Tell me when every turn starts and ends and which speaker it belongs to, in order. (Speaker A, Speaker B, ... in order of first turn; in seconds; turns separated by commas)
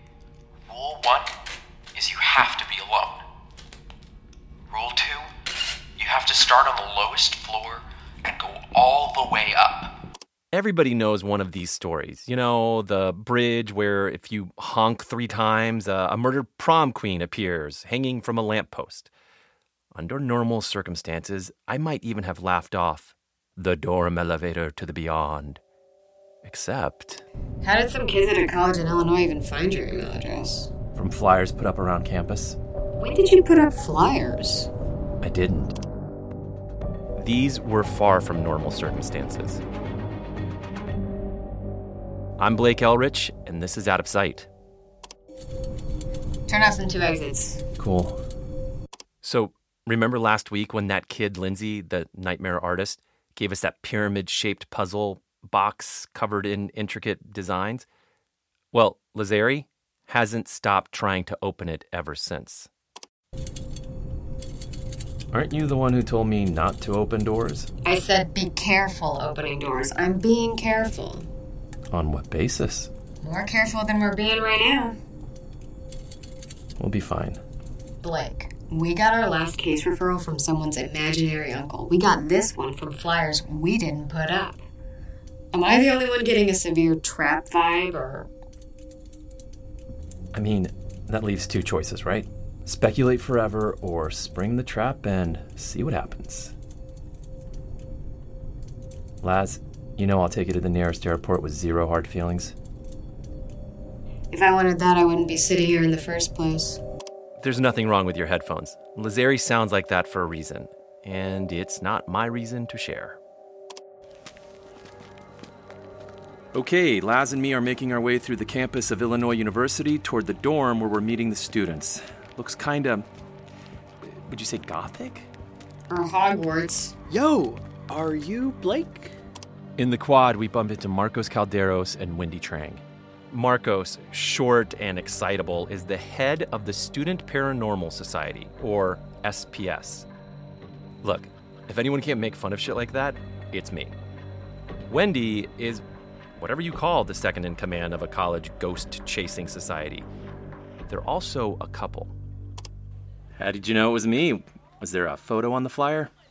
Speaker A: 0.7-1.4, Speaker A: 1.9-3.2, Speaker A: 4.7-5.3, Speaker A: 6.0-9.9, Speaker B: 10.5-19.1, Speaker B: 19.9-25.6, Speaker B: 26.4-27.2, Speaker C: 27.6-30.7, Speaker B: 30.9-32.6, Speaker C: 33.0-34.7, Speaker B: 35.2-35.7, Speaker B: 37.1-39.6, Speaker B: 42.4-44.5, Speaker C: 46.5-47.6, Speaker B: 47.8-48.2, Speaker B: 49.2-57.9, Speaker B: 58.7-62.7, Speaker B: 65.3-67.7, Speaker C: 67.8-71.3, Speaker B: 71.9-72.9, Speaker C: 73.2-75.0, Speaker B: 76.8-77.4, Speaker C: 78.0-84.6, Speaker C: 85.5-88.3, Speaker B: 90.3-96.5, Speaker B: 99.2-102.5, Speaker C: 104.3-106.8, Speaker B: 107.4-113.2, Speaker B: 116.5-123.0, Speaker B: 124.0-125.3, Speaker C: 125.9-126.9, Speaker A: 127.1-129.2, Speaker B: 129.8-140.1, Speaker B: 141.0-143.9, Speaker B: 144.9-145.8, Speaker B: 146.3-150.1, Speaker B: 150.9-152.1, Speaker B: 153.3-156.1